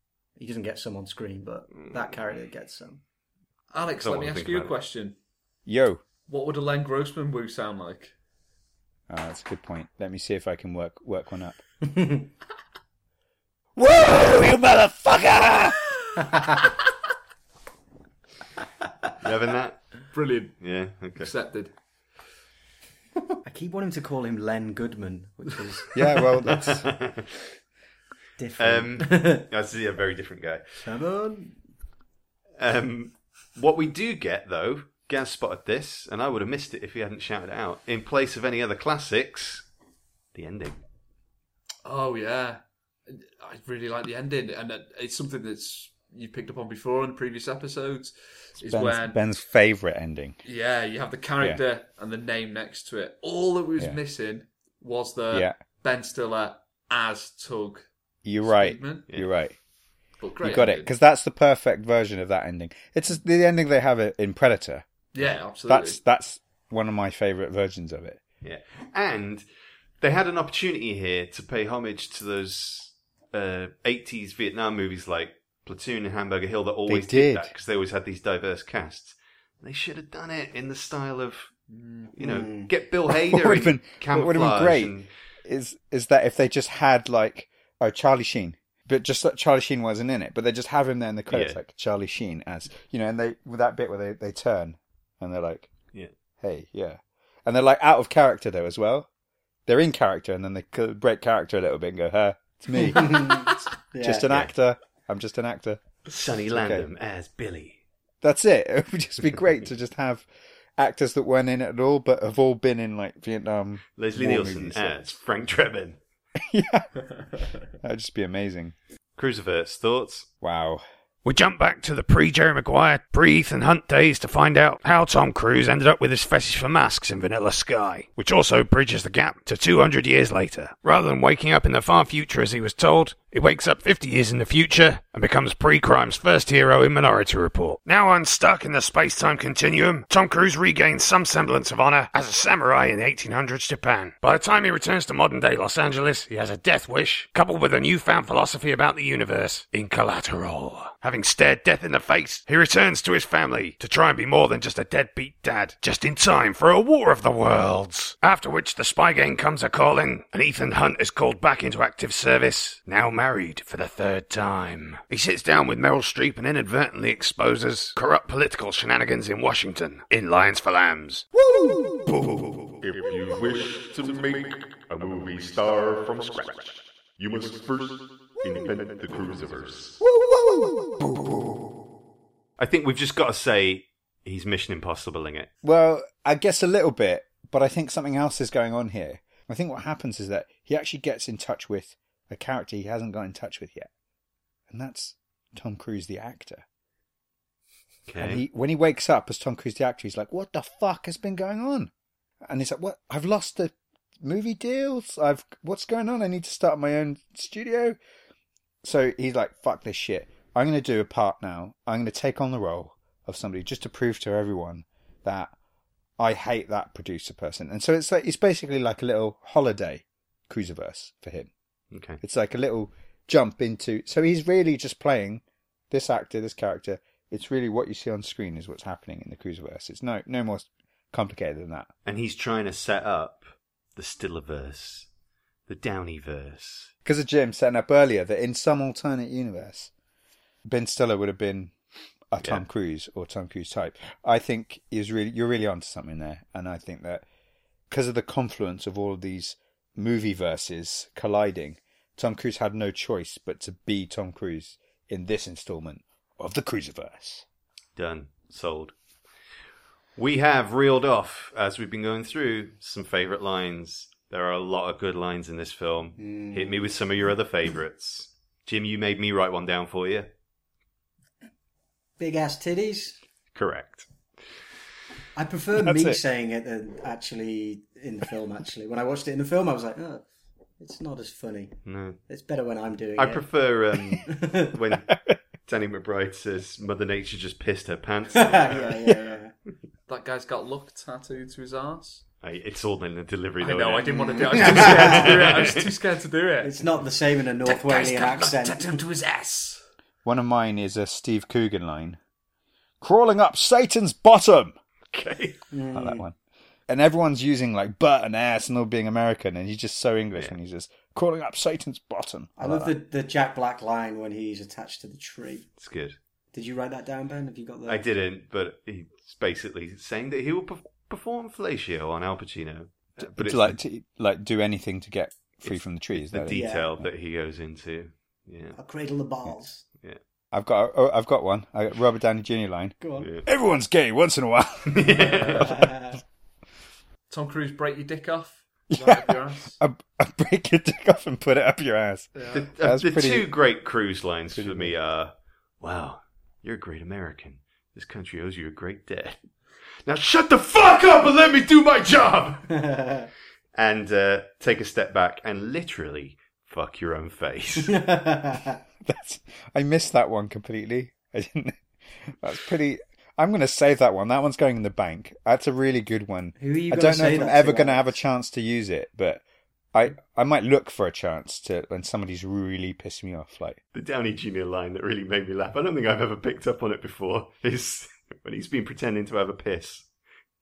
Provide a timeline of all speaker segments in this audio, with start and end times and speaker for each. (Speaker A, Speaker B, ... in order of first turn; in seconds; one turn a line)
Speaker A: 0.4-3.0
Speaker B: 3.7-5.2
Speaker C: 4.0-4.8
Speaker D: 5.7-6.0
Speaker B: 6.3-8.1
Speaker D: 9.1-11.6
Speaker A: 11.8-12.3
Speaker D: 13.8-15.5
Speaker C: 19.2-20.1
Speaker B: 20.1-20.6
Speaker C: 20.6-21.3
Speaker B: 21.2-21.7
Speaker A: 23.4-25.9
Speaker D: 25.9-26.9
Speaker C: 26.4-27.3
Speaker A: 28.4-29.4
Speaker C: 28.6-30.8
Speaker A: 30.7-31.6
Speaker C: 32.6-39.6
Speaker C: 40.3-40.8
Speaker B: 41.8-49.2
Speaker D: 48.6-50.4
Speaker B: 50.4-57.9
Speaker D: 55.3-55.6
Speaker D: 58.2-59.6
Speaker B: 58.4-59.0
Speaker B: 60.2-60.9
Speaker D: 60.4-64.8
Speaker B: 65.1-66.0
Speaker D: 65.7-68.2
Speaker C: 68.4-69.4
Speaker C: 70.0-81.5
Speaker D: 76.9-77.5
Speaker B: 81.7-82.1
Speaker C: 82.1-85.1
Speaker A: 82.2-82.7
Speaker D: 83.1-95.7
Speaker C: 91.3-91.6
Speaker D: 96.4-99.1
Speaker D: 99.7-103.4
Speaker A: 102.8-104.3
Speaker D: 104.0-105.8
Speaker C: 106.1-107.8
Speaker D: 106.5-106.8
Speaker D: 108.2-110.2
Speaker D: 110.8-115.0
Speaker C: 114.0-116.0
Speaker D: 116.4-116.9
Speaker D: 117.8-118.7
Speaker C: 119.2-120.3
Speaker D: 120.4-120.8
Speaker E: 121.2-171.2
Speaker D: 171.4-172.4
Speaker F: 172.8-180.0
Speaker D: 180.0-181.7
Speaker C: 182.6-185.5
Speaker D: 185.6-193.9
Speaker D: 194.7-196.6
Speaker C: 198.1-198.4
Speaker D: 198.2-201.9
Speaker D: 202.4-208.0
Speaker D: 208.8-215.5
Speaker D: 216.2-221.5
Speaker C: 221.9-222.2
Speaker D: 222.2-231.9
Speaker C: 232.0-235.1
Speaker C: 235.7-236.9
Speaker D: 237.0-239.9
Speaker D: 240.7-241.7
Speaker D: 242.3-247.2
Speaker D: 247.9-257.4
Speaker C: 257.9-258.9
Speaker C: 260.2-270.3
Speaker A: 266.2-266.8
Speaker A: 272.2-273.2
Speaker C: 273.5-274.1
Speaker A: 275.3-280.2
Speaker D: 275.8-276.2
Speaker A: 280.8-283.5
Speaker C: 281.8-282.2
Speaker C: 283.2-289.0
Speaker A: 284.2-284.7
Speaker A: 288.3-289.5
Speaker B: 290.1-292.2
Speaker C: 292.4-296.0
Speaker B: 293.6-296.9
Speaker A: 294.0-295.3
Speaker A: 296.6-299.0
Speaker B: 297.6-299.8
Speaker D: 300.2-302.2
Speaker D: 303.0-304.8
Speaker C: 305.1-305.6
Speaker A: 305.7-306.3
Speaker D: 305.9-306.3
Speaker D: 306.9-312.9
Speaker A: 312.6-315.7
Speaker C: 315.8-316.2
Speaker A: 316.5-318.0
Speaker C: 317.9-323.8
Speaker D: 323.2-326.6
Speaker C: 325.6-328.7
Speaker A: 326.5-326.9
Speaker A: 328.7-329.8
Speaker D: 330.5-335.2
Speaker A: 333.0-333.3
Speaker C: 333.2-333.4
Speaker C: 334.9-335.9
Speaker B: 335.1-335.8
Speaker A: 335.6-336.2
Speaker B: 337.3-339.8
Speaker D: 338.9-343.5
Speaker C: 342.5-349.4
Speaker D: 344.5-344.9
Speaker C: 350.0-352.9
Speaker A: 352.8-353.3
Speaker C: 353.7-358.0
Speaker A: 357.8-358.8
Speaker D: 359.0-369.4
Speaker A: 366.6-368.2
Speaker D: 369.9-373.8
Speaker C: 373.9-380.1